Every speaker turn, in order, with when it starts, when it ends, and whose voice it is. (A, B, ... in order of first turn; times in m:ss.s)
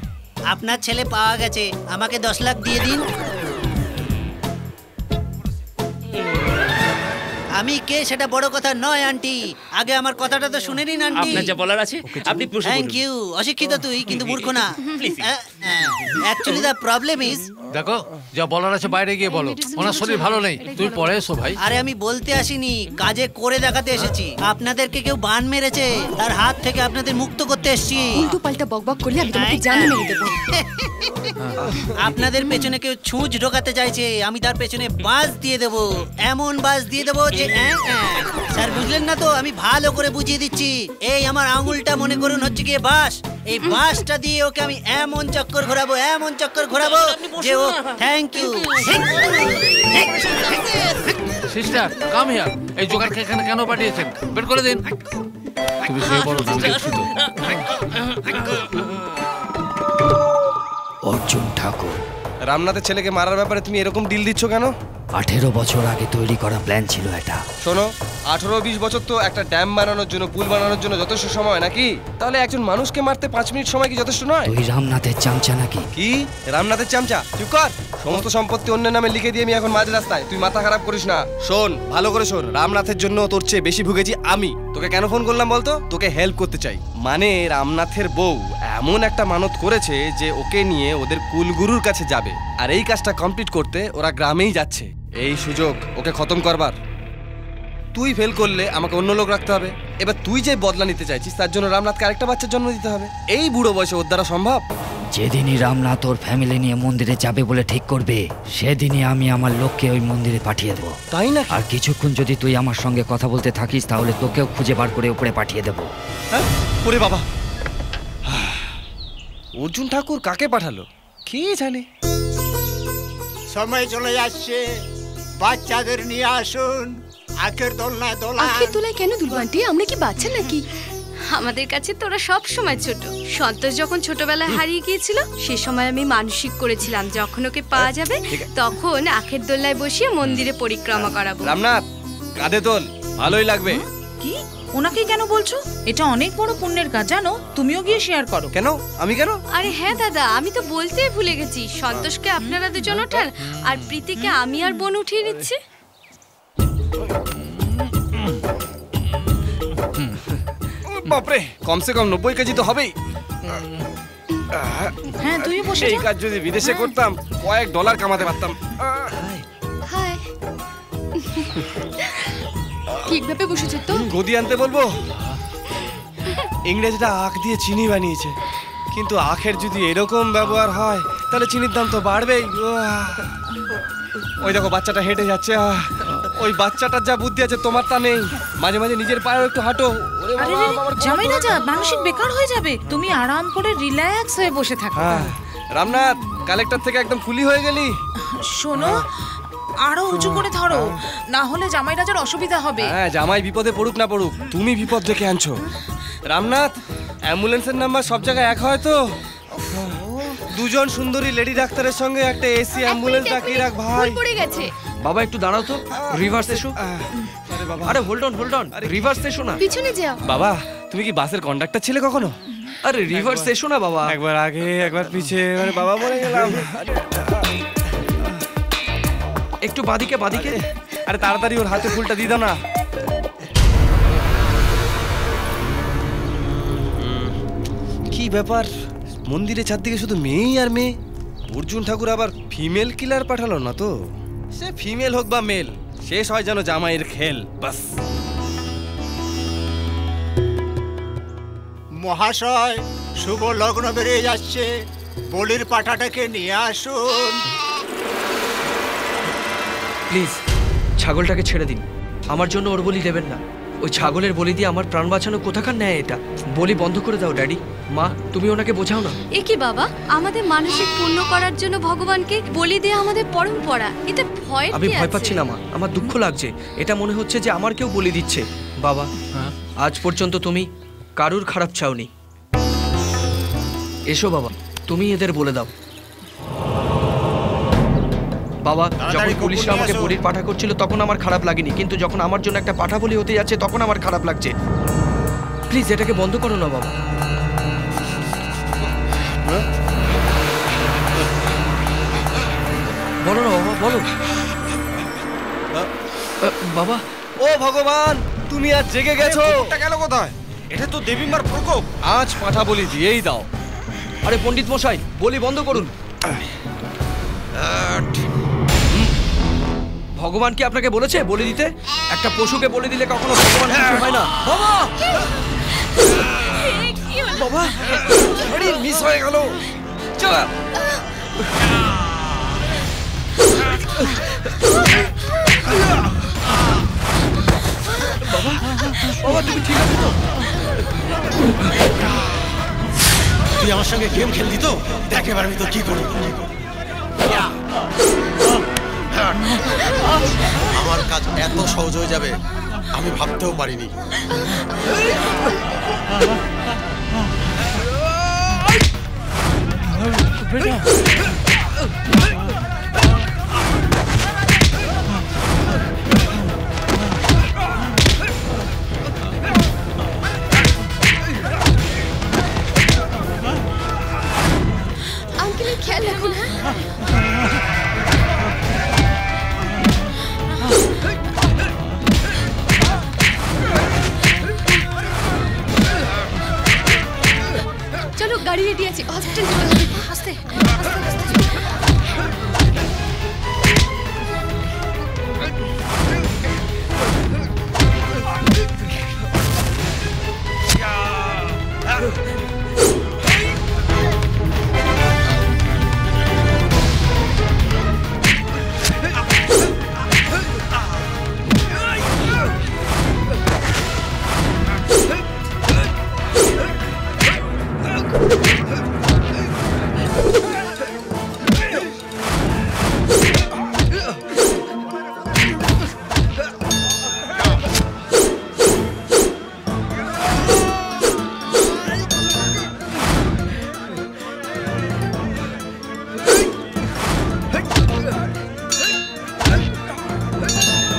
0:00.5-0:03.1 A
0:07.6-0:11.5 A
0:11.1-0:13.0 B
0:12.6-0:17.4 A
0:14.1-0:15.3 B
0:17.7-0:21.6 C
0:21.6-0:28.2 A
0:28.2-0:30.4 D
0:29.3-0:31.3 A
0:32.0-0:51.2 A
0:46.7-0:48.0 B
0:51.5-0:54.8 C
0:55.8-0:57.1 C
0:56.0-0:59.0 B
1:01.1-1:02.0 E
1:02.5-1:04.7 F
1:05.2-1:07.4 E
1:07.6-1:14.5 F
1:14.4-1:15.9 E
1:16.0-1:36.7 F
1:38.0-1:44.6 F
1:45.2-1:51.0 E
1:51.1-1:51.5 F
1:51.5-1:55.9 E
1:56.4-1:57.2 F
1:58.3-1:58.6 F
1:59.6-2:01.8 F
2:03.5-2:04.6 G
2:05.4-2:08.8 G
2:08.4-2:10.6 D
2:11.4-2:21.5 D
2:17.8-2:18.4 F
2:21.4-2:21.8 F
2:22.4-2:23.8 F
2:23.7-2:28.5 H
2:28.5-2:29.4 F
2:29.6-2:35.6 D
2:41.0-2:42.9 F
2:44.6-2:44.9 F
2:45.2-2:46.0 H
2:45.6-2:48.6 F
2:49.9-2:50.2 D
2:51.2-2:52.1 D
2:53.1-2:54.1 D
2:54.1-2:54.9 F
2:56.7-2:58.3 F
2:59.0-3:03.2 F
3:04.4-3:05.8 F
3:06.4-3:11.6 F
3:10.4-3:15.3 H
3:15.0-3:17.9 F
3:18.4-3:19.0 H
3:19.9-3:22.9 H
3:22.9-3:25.6 F
3:26.3-3:26.7 F
3:27.3-3:28.9 F
3:30.5-3:34.2 F
3:32.7-3:34.7 D
3:35.0-3:36.7 I
3:36.0-3:36.7 F
3:37.7-3:38.0 F
3:37.8-3:39.6 I
3:38.8-3:39.0 F
3:39.6-3:40.2 D
3:40.3-3:42.3 F
3:42.8-3:44.1 I
3:43.2-3:43.4 F
3:44.2-3:46.7 F
3:49.7-3:50.6 I
3:51.1-3:52.6 F
3:58.1-3:58.7 F
3:59.3-4:00.9 F
4:01.5-4:03.9 F
4:04.6-4:07.6 F
4:12.0-4:14.7 G
4:15.3-4:17.4 G
4:20.1-4:20.4 I
4:21.0-4:29.2 I
4:30.1-4:33.4 D
4:34.7-4:39.1 I
4:39.8-4:42.1 I
4:44.1-4:45.7 I
4:48.6-4:54.6 I
4:49.0-4:49.4 J
4:49.1-4:50.2 G
4:55.7-4:56.9 I
5:03.3-5:04.0 F
5:06.4-5:07.0 I
5:07.4-5:09.4 F
5:09.2-5:11.9 K
5:12.1-5:13.4 F
5:14.2-5:15.9 I
5:20.2-5:24.8 I
5:28.8-5:29.3 F
5:38.2-5:40.2 I
5:43.6-5:46.5 J
5:50.6-5:52.4 J
5:52.9-5:53.9 J
6:15.4-6:16.6 D
6:28.2-6:30.1 D